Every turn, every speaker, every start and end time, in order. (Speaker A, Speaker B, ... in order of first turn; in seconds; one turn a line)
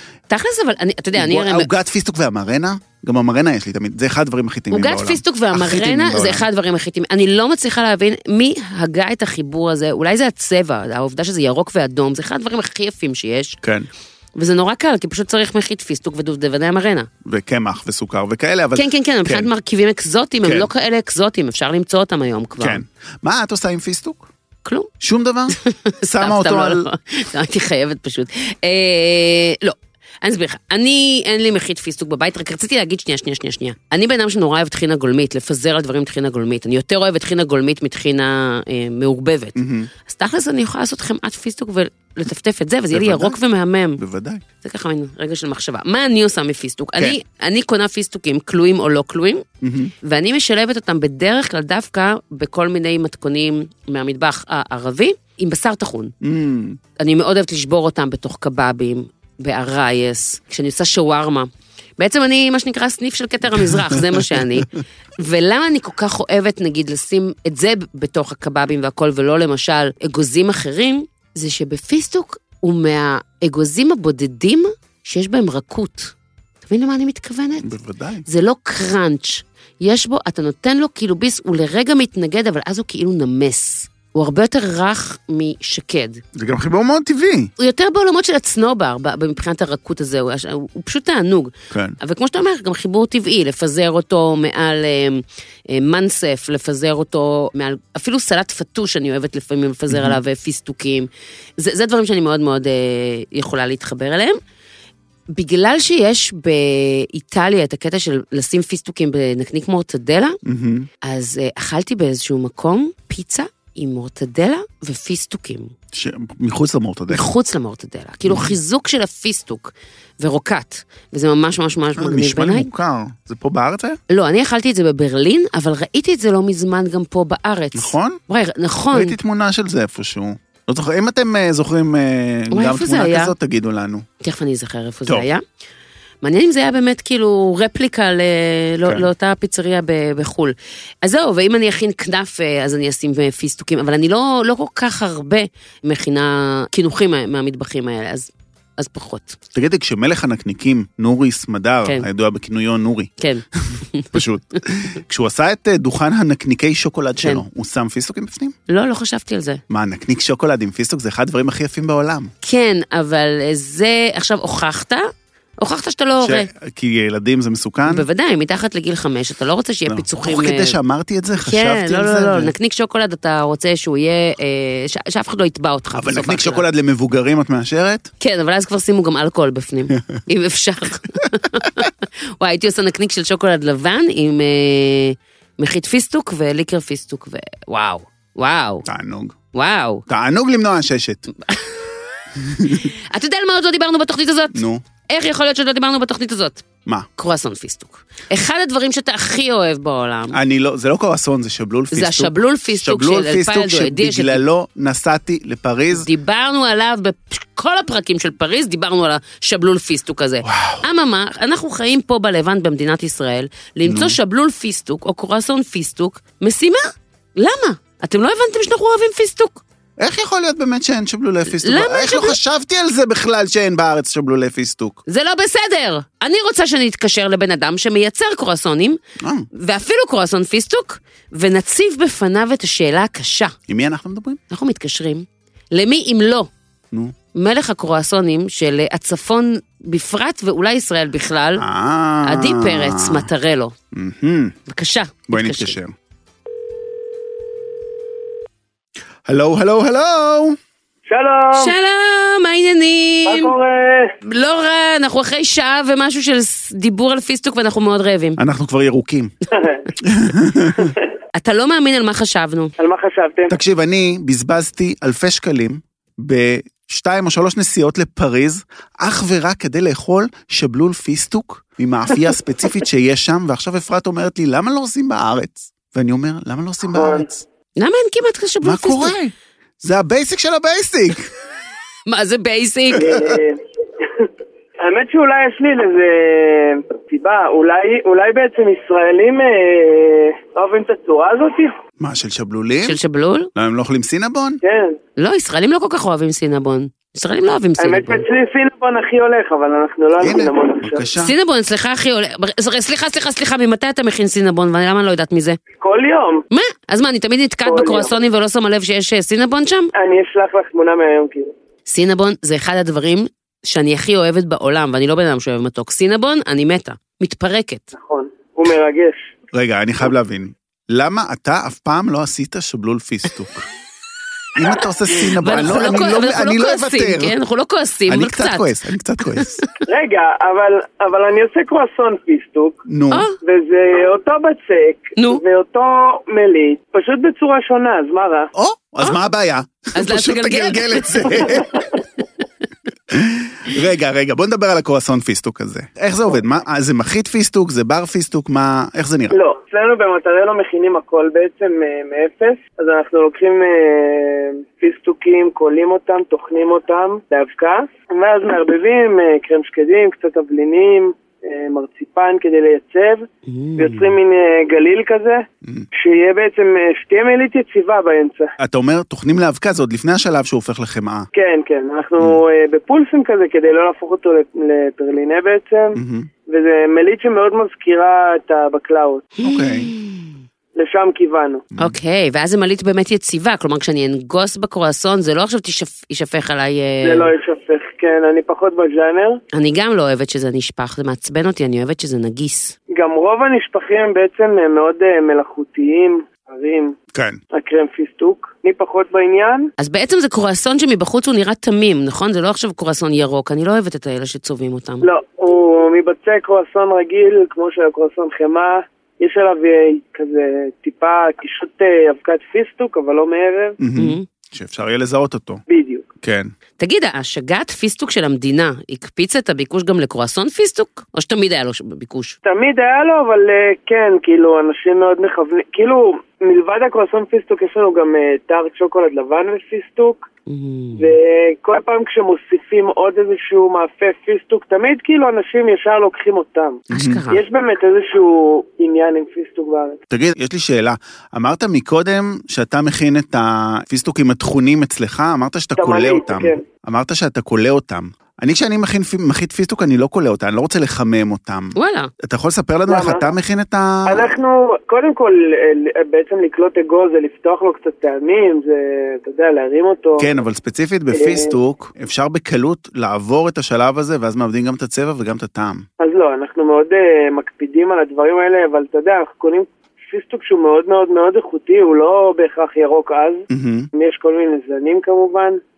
Speaker A: 0.3-1.7
Speaker B: 1.1-6.4
Speaker A: 4.7-13.6
Speaker B: 13.6-13.9
Speaker A: 14.3-17.1
Speaker B: 17.2-19.5
Speaker A: 18.7-22.8
Speaker B: 20.4-20.7
Speaker B: 22.6-24.3
Speaker A: 24.6-24.9
Speaker B: 25.0-25.6
Speaker A: 25.5-44.0
Speaker B: 26.1-26.9
Speaker B: 39.5-39.9
Speaker B: 42.9-43.4
Speaker B: 44.0-44.4
Speaker A: 44.6-49.4
Speaker B: 49.6-49.9
Speaker A: 50.0-56.1
Speaker B: 56.2-56.8
Speaker A: 57.0-77.7
Speaker B: 63.5-64.3
Speaker B: 77.6-78.2
Speaker A: 78.3-86.2
Speaker B: 86.3-87.5
Speaker A: 87.6-104.4
Speaker B: 91.7-92.0
Speaker B: 99.9-100.2
Speaker A: 105.3-110.4
Speaker B: 110.4-110.9
Speaker A: 111.0-115.7
Speaker B: 115.9-117.2
Speaker A: 117.1-122.7
Speaker B: 118.3-118.5
Speaker B: 122.0-124.0
Speaker A: 124.1-129.2
Speaker B: 127.7-128.2
Speaker B: 128.9-134.0
Speaker A: 132.5-133.3
Speaker A: 134.2-135.4
Speaker A: 136.2-149.4
Speaker B: 149.5-158.5
Speaker A: 153.2-154.2
Speaker A: 158.7-159.6
Speaker B: 159.7-162.3
Speaker A: 162.4-165.1
Speaker A: 165.6-166.5
Speaker B: 166.2-168.1
Speaker A: 167.8-170.7
Speaker B: 169.9-172.5
Speaker A: 171.4-176.6
Speaker B: 175.9-178.1
Speaker A: 178.2-188.8
Speaker B: 179.9-180.2
Speaker B: 188.8-189.4
Speaker A: 189.5-190.0
Speaker B: 190.1-191.3
Speaker A: 191.5-191.9
Speaker B: 192.3-192.9
Speaker A: 192.6-196.6
Speaker B: 194.5-194.8
Speaker A: 197.2-200.4
Speaker B: 200.3-206.1
Speaker A: 201.9-204.4
Speaker A: 205.9-219.6
Speaker B: 210.4-210.8
Speaker B: 213.8-214.2
Speaker B: 220.0-225.0
Speaker A: 221.5-222.4
Speaker A: 225.1-229.0
Speaker B: 229.2-229.5
Speaker A: 229.5-233.5
Speaker B: 233.7-234.4
Speaker A: 234.5-236.5
Speaker A: 237.3-241.6
Speaker B: 241.6-243.3
Speaker A: 242.2-243.7
Speaker B: 243.9-244.6
Speaker A: 244.7-245.7
Speaker B: 245.3-245.9
Speaker B: 249.2-250.6
Speaker C: 251.1-251.7
Speaker A: 251.5-253.5
Speaker C: 253.2-254.1
Speaker A: 254.2-258.4
Speaker B: 258.4-259.3
Speaker C: 259.5-259.9
Speaker B: 260.0-260.9
Speaker A: 261.4-262.7
Speaker C: 262.8-263.5
Speaker B: 263.5-277.4
Speaker C: 276.9-277.3
Speaker A: 277.8-279.1
Speaker B: 278.6-281.3
Speaker A: 282.1-283.2
Speaker C: 282.9-284.3
Speaker C: 284.8-291.7
Speaker B: 292.0-293.0
Speaker A: 292.8-293.5
Speaker B: 293.6-294.6
Speaker C: 294.6-295.0
Speaker A: 295.2-298.2
Speaker C: 297.8-301.1
Speaker B: 300.2-301.3
Speaker A: 301.2-305.6
Speaker C: 305.8-306.4
Speaker A: 306.5-309.9
Speaker C: 307.6-308.1
Speaker C: 309.9-311.5
Speaker A: 311.9-317.9
Speaker C: 317.9-319.3
Speaker B: 319.5-323.6
Speaker B: 324.6-327.4
Speaker A: 325.1-328.6
Speaker B: 328.1-329.6
Speaker A: 329.4-329.7
Speaker C: 329.9-332.8
Speaker B: 332.9-333.2
Speaker C: 333.4-338.5
Speaker B: 338.5-341.9
Speaker A: 339.9-341.5
Speaker B: 343.1-349.3
Speaker C: 349.3-368.5
Speaker A: 363.4-364.1
Speaker B: 368.6-371.3
Speaker C: 371.3-379.3
Speaker B: 375.9-376.3
Speaker A: 379.4-380.4
Speaker B: 379.4-379.9
Speaker C: 380.7-381.6
Speaker A: 381.8-387.3
Speaker C: 387.0-389.4
Speaker A: 389.5-392.7
Speaker C: 392.9-396.9
Speaker B: 397.1-397.4
Speaker C: 397.5-399.7
Speaker A: 399.8-405.1
Speaker C: 405.0-413.8
Speaker B: 413.8-415.6
Speaker A: 413.9-414.2
Speaker C: 415.7-416.1
Speaker B: 416.2-416.5
Speaker A: 416.8-422.4
Speaker C: 422.4-430.2
Speaker A: 430.5-431.1
Speaker C: 431.0-440.0
Speaker B: 436.9-437.2
Speaker A: 436.9-437.4
Speaker B: 440.1-454.3
Speaker C: 445.8-446.6
Speaker A: 451.7-452.1
Speaker C: 452.9-453.3
Speaker C: 454.1-460.3
Speaker B: 460.2-465.8
Speaker C: 461.1-461.5
Speaker C: 466.0-475.6
Speaker B: 473.5-473.9